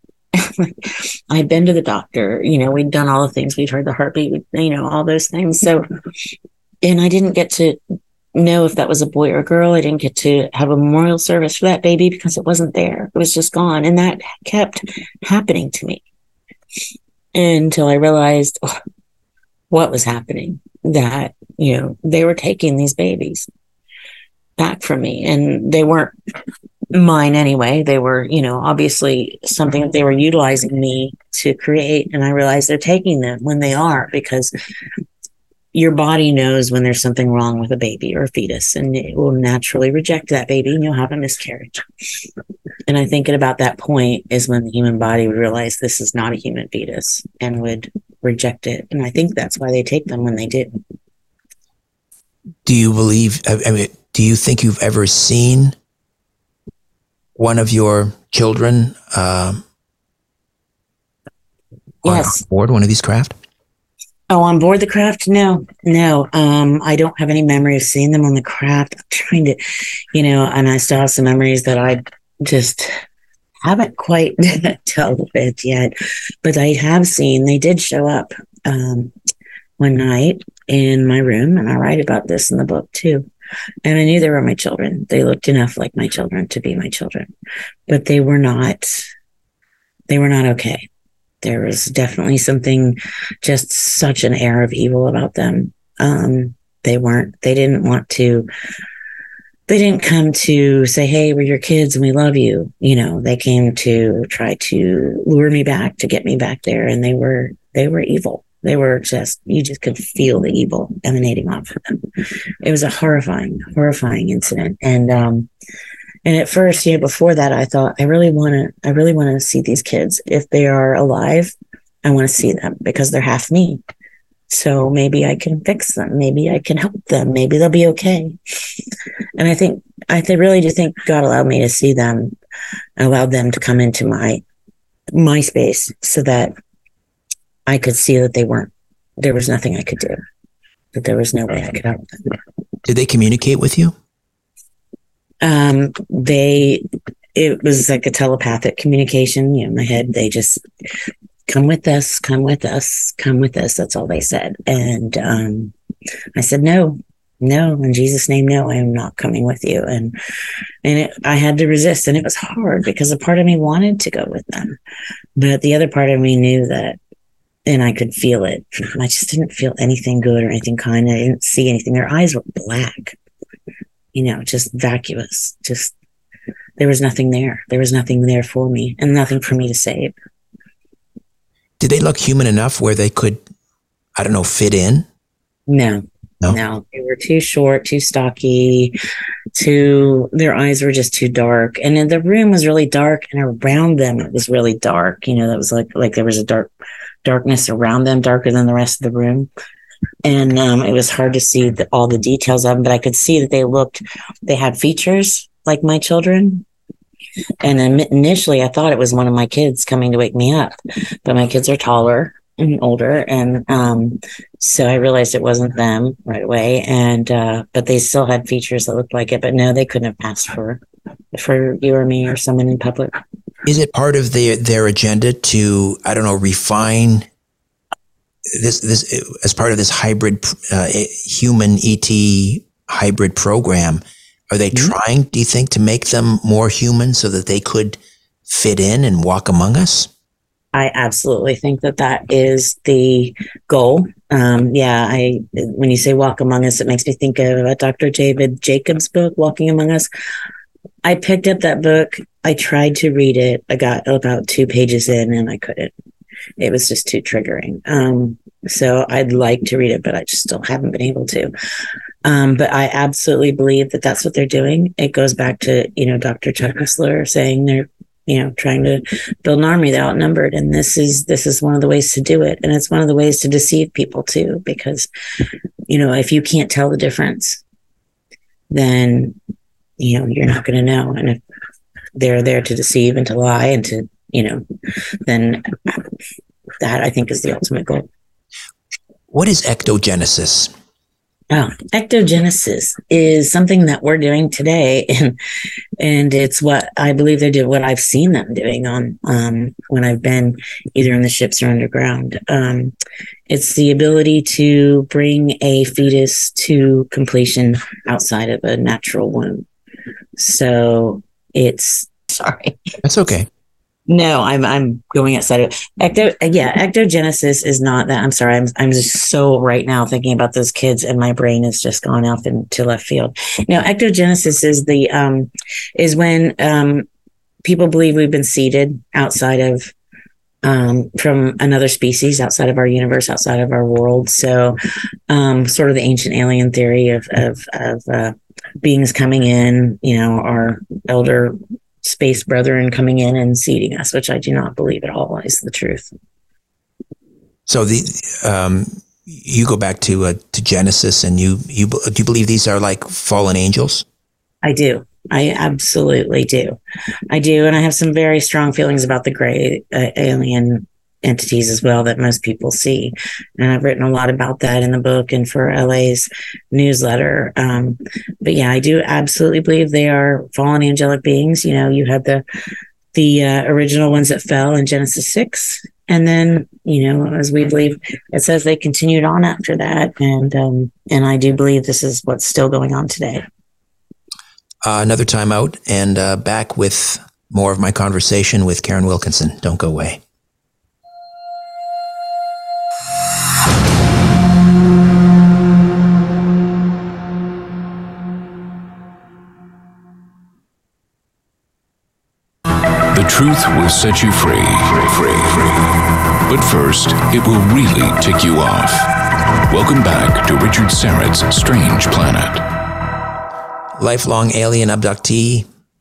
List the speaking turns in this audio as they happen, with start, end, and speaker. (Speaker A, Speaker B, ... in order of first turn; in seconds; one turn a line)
Speaker A: 0.3-5.8
Speaker A: 6.8-7.8
Speaker A: 8.3-16.0
Speaker A: 17.3-18.6
Speaker A: 19.7-23.5
Speaker A: 24.6-26.1
Speaker A: 26.9-34.5
Speaker A: 35.7-41.9
Speaker A: 42.9-50.8
Speaker B: 52.6-55.7
Speaker B: 57.4-59.6
Speaker B: 62.0-63.4
Speaker A: 62.0-62.4
Speaker A: 64.3-69.6
Speaker A: 70.1-72.9
Speaker A: 73.6-79.1
Speaker A: 79.8-83.3
Speaker A: 83.8-87.3
Speaker A: 87.9-89.1
Speaker A: 90.1-90.9
Speaker A: 91.4-98.5
Speaker A: 99.7-115.5
Speaker A: 116.2-123.8
Speaker A: 124.5-128.8
Speaker A: 129.4-132.3
Speaker A: 133.0-134.4
Speaker A: 135.1-136.5
Speaker A: 137.7-140.2
Speaker A: 140.9-142.4
Speaker B: 142.9-143.9
Speaker A: 145.4-150.6
Speaker A: 151.5-155.7
Speaker A: 156.3-160.2
Speaker A: 160.8-164.8
Speaker A: 165.4-167.0
Speaker A: 167.7-173.2
Speaker A: 174.1-175.9
Speaker A: 176.8-180.1
Speaker B: 181.8-183.4
Speaker B: 184.2-185.1
Speaker A: 185.7-189.0
Speaker A: 189.5-196.7
Speaker A: 197.2-199.5
Speaker A: 200.2-206.7
Speaker A: 207.6-220.8
Speaker A: 221.3-223.2
Speaker B: 223.7-227.3
Speaker B: 228.5-240.1
Speaker A: 240.7-250.1
Speaker A: 251.0-255.9
Speaker A: 256.6-261.5
Speaker A: 262.2-275.1
Speaker A: 275.9-277.6
Speaker A: 278.7-279.4
Speaker A: 280.0-281.4
Speaker A: 282.1-284.6
Speaker A: 285.2-286.0
Speaker A: 286.8-288.1
Speaker B: 289.3-290.7
Speaker A: 291.5-295.4
Speaker A: 296.0-302.9
Speaker A: 303.5-309.6
Speaker A: 310.4-312.9
Speaker B: 313.0-313.5
Speaker A: 314.1-327.1
Speaker A: 327.6-329.9
Speaker A: 330.6-334.8
Speaker A: 335.3-346.1
Speaker B: 347.7-354.0
Speaker A: 354.6-356.8
Speaker A: 357.3-372.4
Speaker A: 373.1-383.4
Speaker B: 384.8-390.2
Speaker C: 403.1-409.1
Speaker C: 409.7-412.6
Speaker B: 414.0-415.7